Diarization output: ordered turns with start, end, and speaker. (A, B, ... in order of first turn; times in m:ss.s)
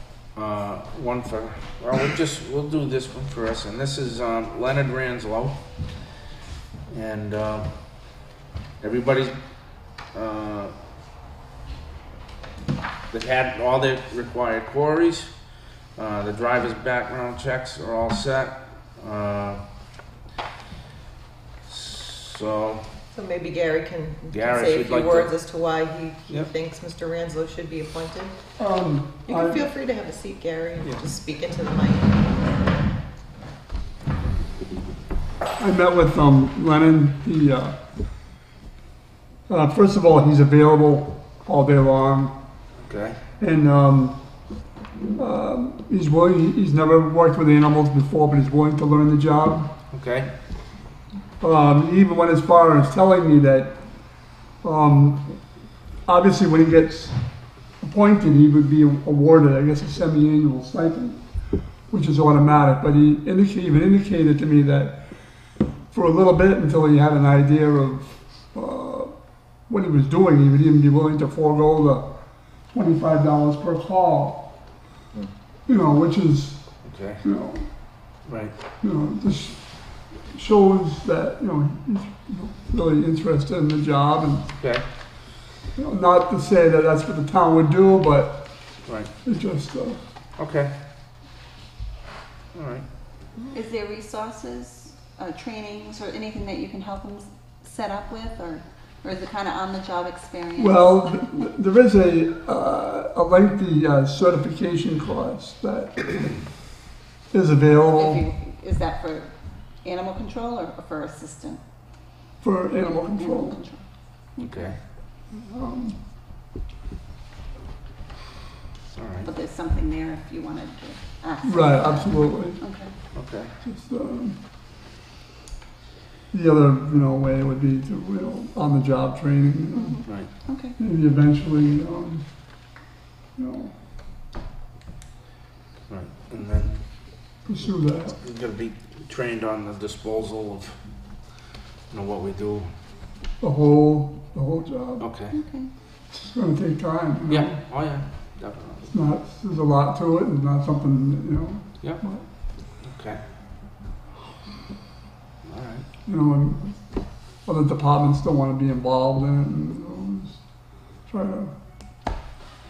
0:00.4-0:05.6 A
0:06.9-0:07.7 A
0:08.8-0:09.4 A
0:10.1-0:10.7 A
0:13.1-0:15.3 A
0:16.0-0:19.6 A
0:21.6-0:22.8 A
0:23.1-0:28.3 B
0:24.3-0:25.3 A
0:28.6-0:29.7 C
0:29.2-0:32.3 B
0:35.6-0:37.8 C
0:39.5-0:42.3 C
0:42.8-0:43.2 A
0:43.4-0:44.2 C
0:45.2-0:49.7 C
0:49.9-0:50.3 A
0:51.4-0:53.8 C
0:54.6-0:55.2 C
0:56.0-0:57.2 C
0:57.8-1:01.2 C
1:01.9-1:09.1 C
1:09.7-1:12.0 C
1:12.7-1:14.5 C
1:15.7-1:16.6 C
1:16.8-1:17.2 A
1:17.2-1:17.7 C
1:18.3-1:18.5 A
1:18.8-1:19.6 C
1:20.3-1:24.5 C
1:24.6-1:24.8 A
1:25.8-1:28.4 C
1:29.2-1:30.0 C
1:30.4-1:30.7 A
1:32.5-1:32.8 A
1:33.5-1:41.5 D
1:40.6-1:46.3 C
1:47.3-1:48.2 C
1:47.9-1:49.3 D
1:49.8-1:51.6 D
1:52.4-1:53.6 C
1:53.0-1:53.8 D
1:54.4-1:54.6 D
1:54.4-1:54.8 A
1:55.3-1:56.0 C
1:59.0-1:59.3 A
1:59.2-2:02.9 D
2:01.4-2:02.6 C
2:03.1-2:03.5 A
2:03.6-2:04.4 C
2:06.3-2:10.0 C
2:09.7-2:10.8 D
2:10.8-2:12.2 C
2:13.4-2:13.7 C
2:15.9-2:16.8 A
2:17.4-2:18.2 C
2:18.2-2:20.8 A
2:21.9-2:22.7 A
2:23.4-2:25.0 C
2:25.0-2:25.4 A
2:25.3-2:25.7 D
2:26.2-2:27.6 C
2:27.3-2:28.9 A
2:28.9-2:32.2 C
2:32.8-2:33.2 A
2:35.4-2:35.8 A
2:36.0-2:36.8 C
2:37.4-2:40.4 C
2:41.1-2:41.5 C